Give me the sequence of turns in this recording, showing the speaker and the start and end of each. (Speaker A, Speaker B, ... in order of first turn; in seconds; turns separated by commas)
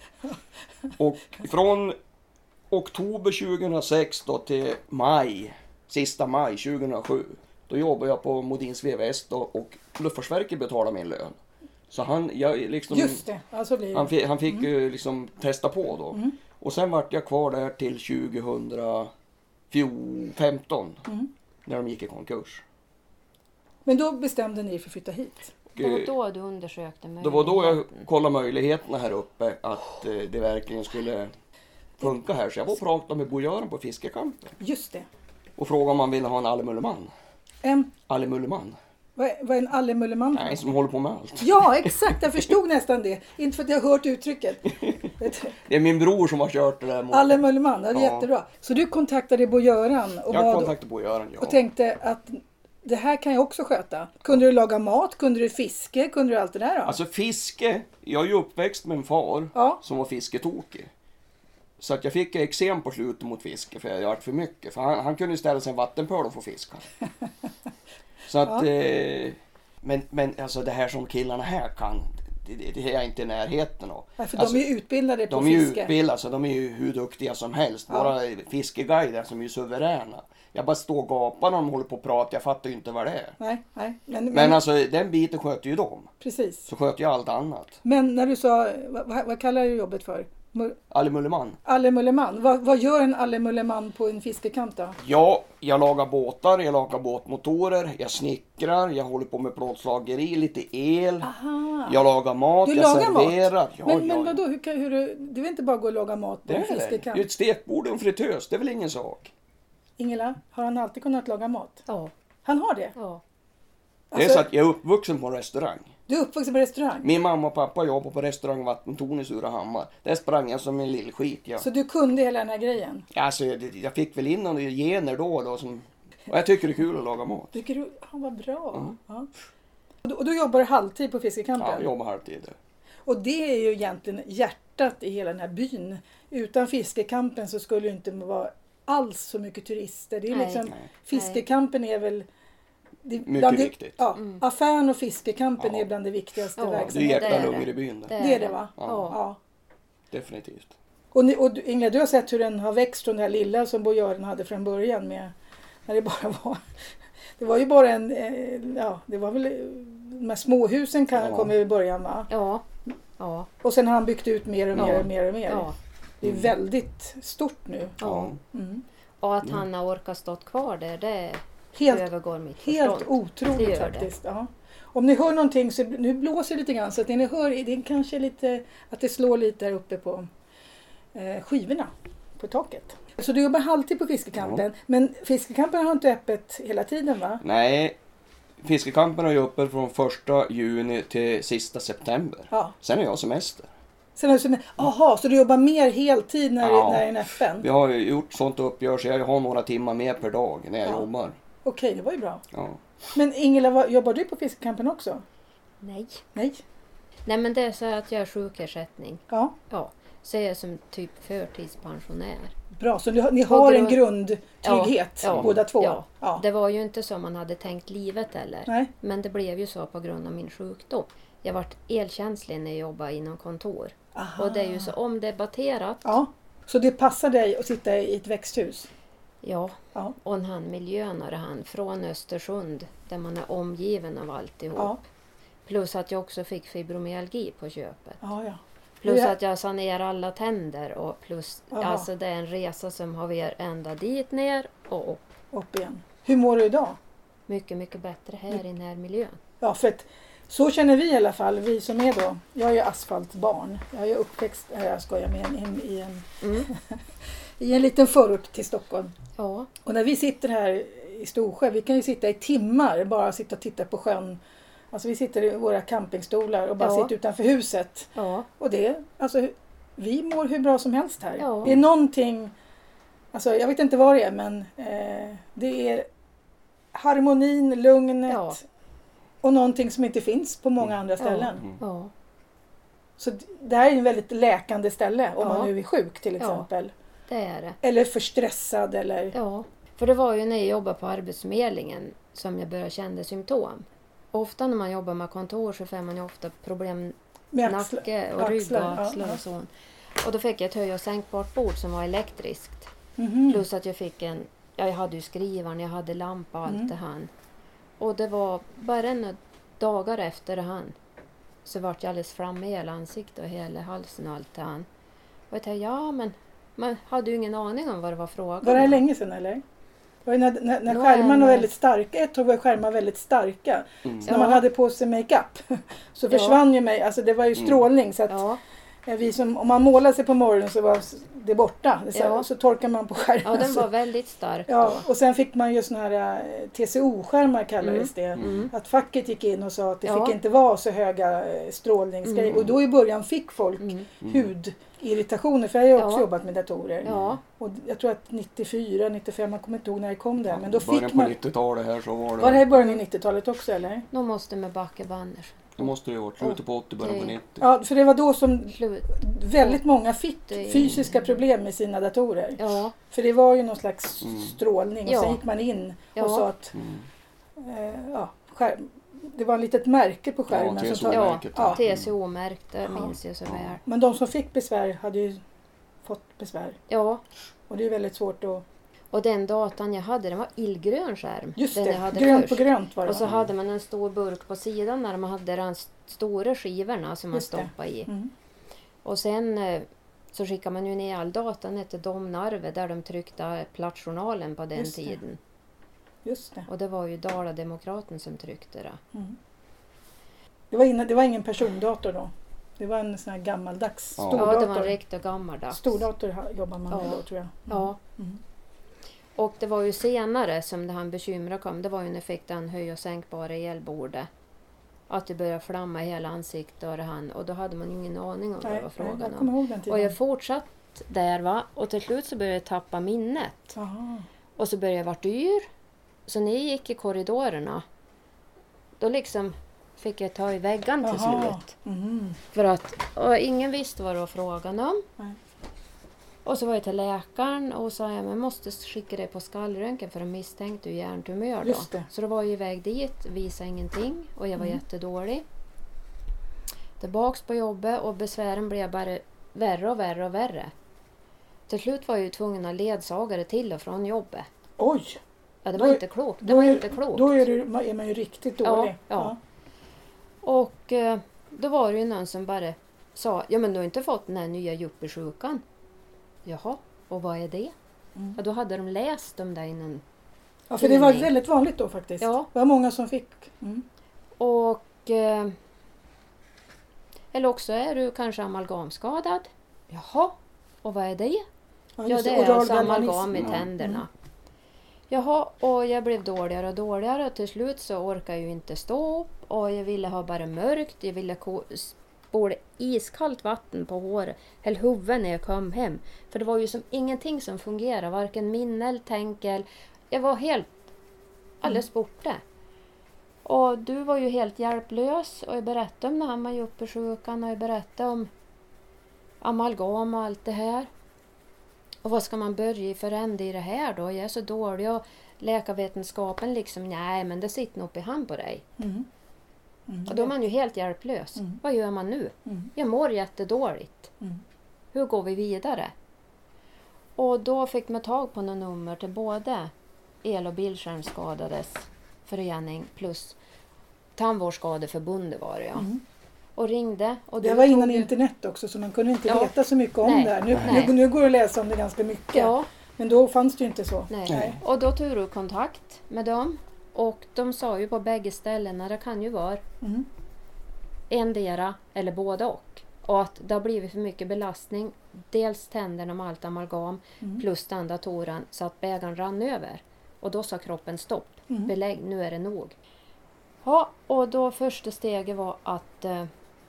Speaker A: 1.0-1.9, Speaker A: 2.7-11.4, Speaker A: 11.9-13.2, Speaker B: 12.9-14.7, Speaker A: 13.9-19.1, Speaker A: 19.7-21.0, Speaker A: 21.6-22.6, Speaker B: 23.9-25.5, Speaker A: 25.7-26.1, Speaker C: 25.8-28.1, Speaker A: 27.2-31.3, Speaker A: 32.0-34.5, Speaker B: 34.6-35.0, Speaker A: 35.6-37.1, Speaker B: 37.6-37.9, Speaker A: 38.1-38.8, Speaker B: 39.1-40.6, Speaker A: 40.3-42.4, Speaker B: 41.4-45.5, Speaker A: 44.7-48.3, Speaker B: 47.1-50.7, Speaker A: 50.3-51.6, Speaker B: 51.4-57.0, Speaker A: 56.9-60.9, Speaker B: 59.5-59.8, Speaker A: 61.8-66.8, Speaker A: 68.3-74.6, Speaker B: 74.2-75.9, Speaker A: 75.3-83.3, Speaker B: 83.4-84.6, Speaker A: 84.3-86.1, Speaker B: 86.2-86.7, Speaker A: 86.7-87.8, Speaker B: 87.8-90.8, Speaker A: 90.9-91.6, Speaker B: 91.6-95.0, Speaker A: 95.0-101.3, Speaker B: 101.2-102.0, Speaker A: 101.9-104.4, Speaker B: 102.6-107.2, Speaker A: 106.5-109.3, Speaker B: 110.0-111.8, Speaker B: 112.4-112.9, Speaker C: 113.0-113.2, Speaker B: 114.1-114.5, Speaker A: 114.1-115.9, Speaker B: 116.1-117.1, Speaker A: 117.0-121.7, Speaker B: 121.6-123.0, Speaker A: 123.1-127.5, Speaker B: 127.5-129.3, Speaker B: 130.0-131.9, Speaker A: 131.6-132.6, Speaker B: 133.1-142.2, Speaker C: 140.3-141.4, Speaker B: 143.0-147.6, Speaker A: 143.2-144.0, Speaker A: 145.6-145.9, Speaker C: 146.6-149.2, Speaker A: 146.8-148.2, Speaker B: 148.2-149.4, Speaker A: 148.8-149.1, Speaker A: 150.1-150.7, Speaker B: 151.1-155.3, Speaker B: 155.9-156.6, Speaker B: 157.4-162.3, Speaker A: 161.2-161.5, Speaker C: 162.3-162.6, Speaker C: 163.2-163.5, Speaker B: 163.6-168.0, Speaker A: 164.7-165.1, Speaker C: 164.8-165.7, Speaker A: 166.2-166.5, Speaker C: 168.0-168.3, Speaker A: 168.0-168.4, Speaker B: 168.5-168.8, Speaker C: 169.2-174.1, Speaker B: 171.7-172.1, Speaker B: 172.6-180.3, Speaker B: 181.1-187.4, Speaker A: 187.4-188.0, Speaker A: 188.6-193.7, Speaker B: 194.2-197.7, Speaker A: 196.6-201.4, Speaker B: 201.6-202.4, Speaker A: 202.5-202.8, Speaker B: 203.1-205.2, Speaker C: 205.8-206.2, Speaker B: 206.3-206.6, Speaker C: 207.2-212.5, Speaker B: 209.3-209.5, Speaker B: 212.8-216.4, Speaker C: 213.5-214.0, Speaker C: 214.6-226.2, Speaker B: 224.1-224.9, Speaker B: 226.0-228.9, Speaker C: 229.4-235.0, Speaker C: 235.7-238.2, Speaker B: 238.2-239.3, Speaker C: 239.0-245.2, Speaker B: 241.7-242.1, Speaker B: 245.5-247.0, Speaker C: 247.5-249.4, Speaker B: 249.6-257.0, Speaker C: 256.4-256.7, Speaker B: 257.6-259.1, Speaker C: 259.4-259.7, Speaker B: 259.8-264.4, Speaker B: 264.9-272.5, Speaker C: 266.8-267.1, Speaker C: 268.1-268.5, Speaker C: 271.4-271.7, Speaker B: 273.3-276.1, Speaker B: 276.9-278.6, Speaker C: 278.3-278.6, Speaker B: 279.4-281.6, Speaker C: 281.2-282.1, Speaker B: 283.2-286.9, Speaker C: 285.4-285.7, Speaker C: 286.4-286.6, Speaker C: 287.3-287.8, Speaker B: 287.8-289.3, Speaker C: 289.3-299.7, Speaker B: 297.5-299.4, Speaker C: 300.2-302.9, Speaker B: 303.2-303.6, Speaker C: 303.5-307.3, Speaker B: 306.6-306.9, Speaker C: 308.0-310.9, Speaker C: 311.6-314.9, Speaker C: 315.5-319.0, Speaker B: 318.6-319.6, Speaker B: 320.2-328.4, Speaker C: 320.9-321.7, Speaker C: 324.2-324.6, Speaker C: 326.3-326.6, Speaker C: 328.3-328.6, Speaker B: 329.1-333.9, Speaker C: 332.1-332.5, Speaker C: 333.4-335.0, Speaker B: 334.7-351.3, Speaker C: 337.8-338.7, Speaker A: 338.4-338.7, Speaker C: 340.0-340.4, Speaker C: 342.2-342.6, Speaker C: 343.8-344.1, Speaker A: 344.2-344.5, Speaker C: 345.9-346.2, Speaker C: 347.0-347.4, Speaker A: 347.1-347.4, Speaker A: 350.4-352.7, Speaker B: 352.4-354.1, Speaker C: 354.1-355.9, Speaker A: 355.8-357.6, Speaker C: 356.4-357.4, Speaker B: 357.6-366.7, Speaker C: 358.7-359.8, Speaker C: 360.5-361.4, Speaker C: 362.6-362.9, Speaker A: 364.2-364.5, Speaker C: 365.1-365.4, Speaker C: 366.1-366.4, Speaker A: 366.7-367.1, Speaker B: 367.6-371.8, Speaker A: 370.5-372.1, Speaker C: 371.1-373.8, Speaker B: 372.9-373.1, Speaker A: 373.5-373.7, Speaker B: 373.9-375.4, Speaker B: 376.0-376.8, Speaker C: 376.9-377.2, Speaker B: 377.7-378.6, Speaker C: 379.1-388.1, Speaker B: 381.6-383.2, Speaker A: 383.2-383.5, Speaker B: 387.3-388.3, Speaker C: 389.0-395.4, Speaker B: 394.8-395.2, Speaker B: 396.2-396.7, Speaker C: 396.7-399.0, Speaker B: 400.7-404.9, Speaker A: 404.2-404.5, Speaker C: 404.3-406.0, Speaker B: 405.7-408.4, Speaker C: 406.9-408.0, Speaker C: 409.4-414.3, Speaker C: 415.1-423.8, Speaker B: 418.6-420.1, Speaker B: 423.8-424.2, Speaker C: 424.6-425.6, Speaker C: 426.3-427.8, Speaker C: 429.0-431.7, Speaker B: 431.0-432.4, Speaker C: 432.5-435.0, Speaker C: 436.4-445.4, Speaker B: 441.6-442.1, Speaker C: 447.0-450.7, Speaker C: 451.7-454.5, Speaker B: 454.8-455.2, Speaker C: 455.6-457.4, Speaker B: 455.8-459.4, Speaker C: 458.6-459.3, Speaker C: 460.4-465.6, Speaker C: 466.4-467.7, Speaker C: 468.4-470.0, Speaker B: 470.7-473.8, Speaker C: 470.8-471.3, Speaker C: 472.2-472.5, Speaker C: 474.4-475.5, Speaker C: 477.3-481.4, Speaker B: 482.0-484.0, Speaker C: 482.1-484.1, Speaker C: 485.1-500.7, Speaker C: 501.6-502.4, Speaker C: 503.4-508.3, Speaker C: 509.4-510.9, Speaker C: 512.0-518.6, Speaker B: 518.8-519.1, Speaker B: 519.9-520.3, Speaker C: 520.1-524.1, Speaker C: 524.9-525.9, Speaker C: 527.2-529.7, Speaker C: 530.2-533.3, Speaker C: 534.1-535.9, Speaker B: 535.8-536.0, Speaker C: 536.5-538.1, Speaker B: 537.4-544.6, Speaker C: 539.3-540.9, Speaker C: 542.3-542.7, Speaker C: 544.1-549.6, Speaker B: 549.8-550.1, Speaker C: 551.1-562.7, Speaker C: 563.6-566.3